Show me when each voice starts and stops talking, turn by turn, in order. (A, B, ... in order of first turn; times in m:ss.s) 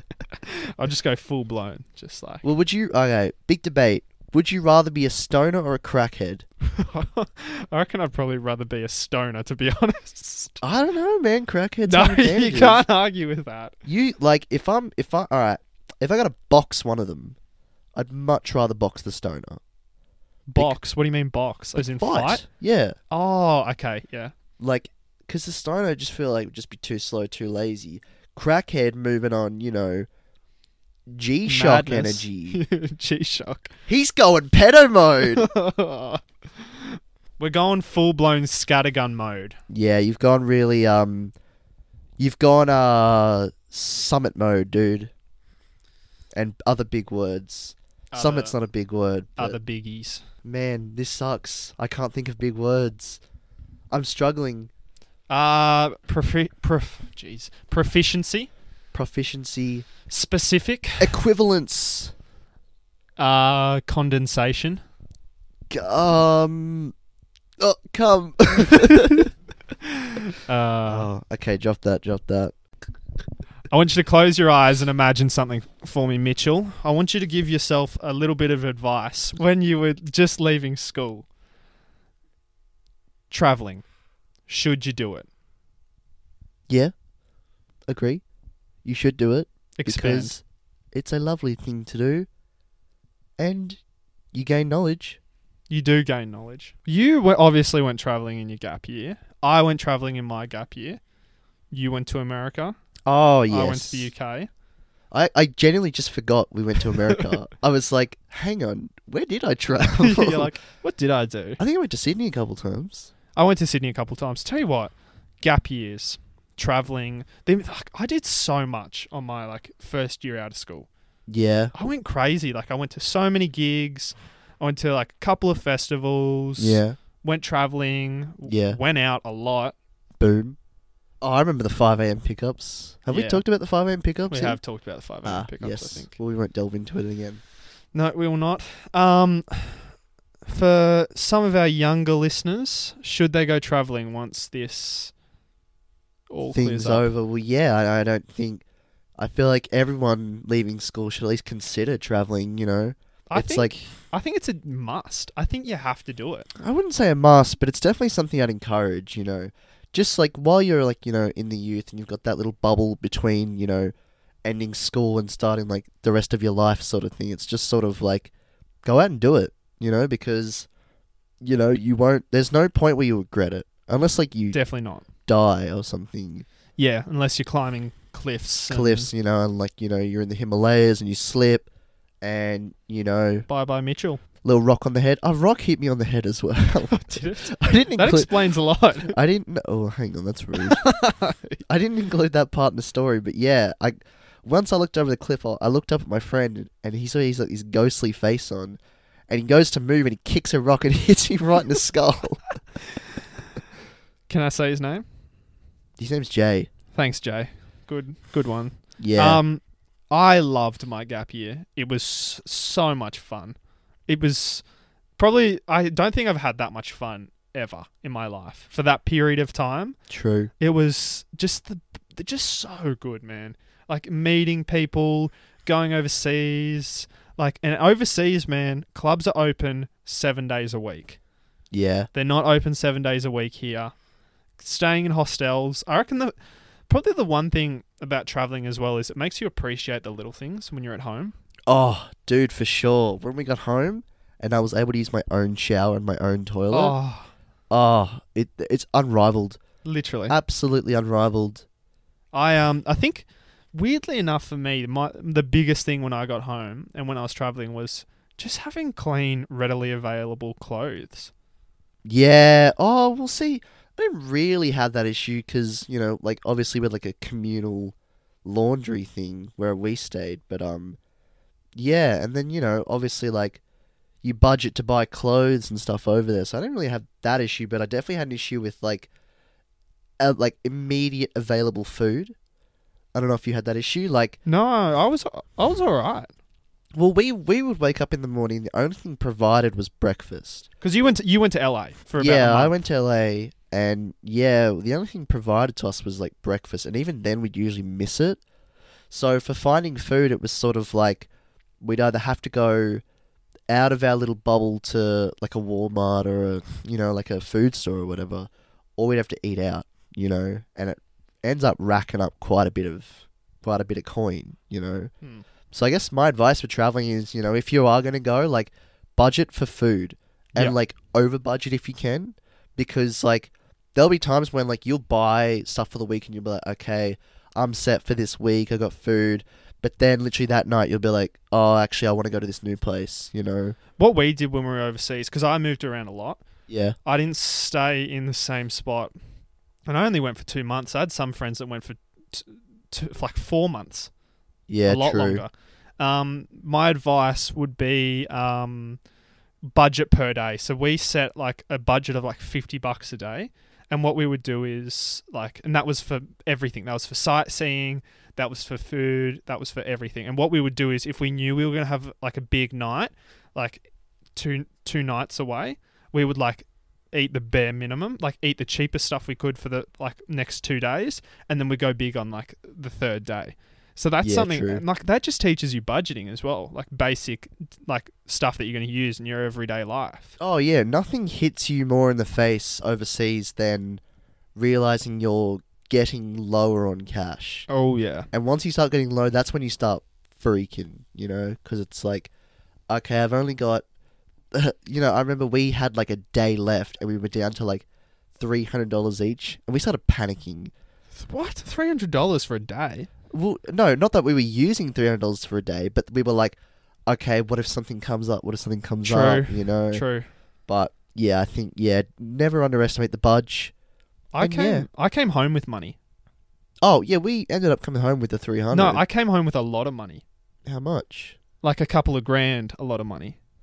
0:00.4-0:02.4 A
0:02.4-0:06.4 B
0:06.7-0:10.6 A
0:10.6-0:12.8 B
0:11.8-0:13.8 A
0:13.8-0:17.4 B
0:17.9-0:19.6 B
0:20.5-0:22.4 A
0:21.8-0:23.0 B
0:23.1-0:24.3 A
0:24.6-0:30.1 B
0:31.1-0:32.6 B
0:31.4-0:33.7 A
0:33.9-0:35.4 B
0:35.3-0:39.6 A
0:39.7-0:41.3 B
0:42.2-0:45.1 B
0:46.3-0:49.6 B
0:48.1-0:48.6 A
0:49.4-0:50.2 A
0:50.4-0:53.2 B
0:53.9-0:54.7 B
0:55.3-0:58.5 A
0:58.9-0:59.9 B
1:00.1-1:01.1 A
1:01.0-1:02.1 B
1:03.2-1:04.8 A
1:05.7-1:06.9 B
1:07.6-1:09.3 B
1:10.4-1:11.1 A
1:10.8-1:12.5 B
1:13.7-1:21.2 A
1:23.3-1:23.8 A
1:24.4-1:25.3 A
1:27.9-1:28.2 B
1:28.8-1:32.3 B
1:29.8-1:30.3 A
1:33.4-1:33.8 B
1:34.3-1:35.2 B
1:35.7-1:41.0 A
1:41.7-1:42.7 A
1:43.0-1:44.1 B
1:43.5-1:44.5 A
1:45.1-1:50.5 B
1:50.0-1:51.6 A
1:51.6-1:53.1 B
1:53.3-2:00.9 A
2:01.3-2:01.7 B
2:01.7-2:09.7 A
2:06.6-2:07.0 B
2:08.4-2:08.8 B
2:10.2-2:10.6 B
2:11.2-2:14.6 B
2:13.1-2:13.4 A
2:14.3-2:16.2 A
2:15.2-2:17.4 B
2:17.9-2:19.9 A
2:20.4-2:25.1 A
2:26.3-2:27.1 A
2:26.5-2:28.6 B
2:29.2-2:33.7 B
2:33.3-2:36.5 A
2:36.6-2:43.9 B
2:44.4-2:48.3 B
2:48.8-2:50.7 B
2:51.4-2:54.6 B
2:54.5-2:55.0 A
2:55.3-2:56.4 B
2:56.8-2:59.1 A
2:58.7-3:01.7 B
3:02.2-3:03.4 B
3:03.5-3:04.2 A
3:04.4-3:08.3 B
3:06.9-3:09.1 A
3:09.0-3:10.8 B
3:10.7-3:11.6 A
3:11.6-3:22.5 B
3:24.3-3:25.0 A
3:26.0-3:26.7 B
3:26.9-3:33.6 A
3:29.0-3:29.4 B
3:34.1-3:34.6 A
3:35.2-3:40.0 A
3:40.1-3:40.5 B
3:40.6-3:51.2 A
3:51.7-3:52.1 B
3:52.1-3:53.9 A
3:54.6-3:56.3 A
3:56.9-4:01.4 A
4:01.7-4:06.9 B
4:06.7-4:07.3 A
4:07.7-4:09.6 B
4:09.8-4:10.3 A
4:10.3-4:11.6 B
4:12.3-4:21.3 A
4:22.0-4:31.0 B
4:31.7-4:33.6 B
4:34.2-4:39.1 B
4:40.2-4:42.3 B
4:43.1-4:44.4 B
4:44.4-4:46.3 A
4:46.9-4:50.7 B
4:50.8-4:52.7 A
4:52.2-4:58.4 B
4:59.1-5:01.3 B
5:01.8-5:03.0 B
5:03.7-5:15.1 B
5:15.7-5:33.8 B
5:34.0-5:36.4 A
5:36.7-5:37.0 B
5:37.0-5:39.1 A
5:39.9-5:44.1 A
5:44.7-5:45.4 B
5:44.8-5:49.0 A
5:49.6-6:20.4 A
6:14.2-6:14.8 B
6:20.4-6:24.0 B
6:24.5-6:27.7 B
6:27.7-6:28.3 A
6:28.3-6:32.3 B
6:32.9-6:33.8 B
6:34.5-6:37.8 B
6:38.4-6:40.7 B
6:41.1-6:43.1 A
6:43.3-6:50.0 B
6:49.0-6:50.3 A
6:50.7-6:53.7 B
6:54.3-6:56.0 A
6:54.4-6:54.9 B
6:56.8-6:59.0 B
6:58.7-7:00.2 A
7:00.6-7:01.4 B
7:01.6-7:03.4 A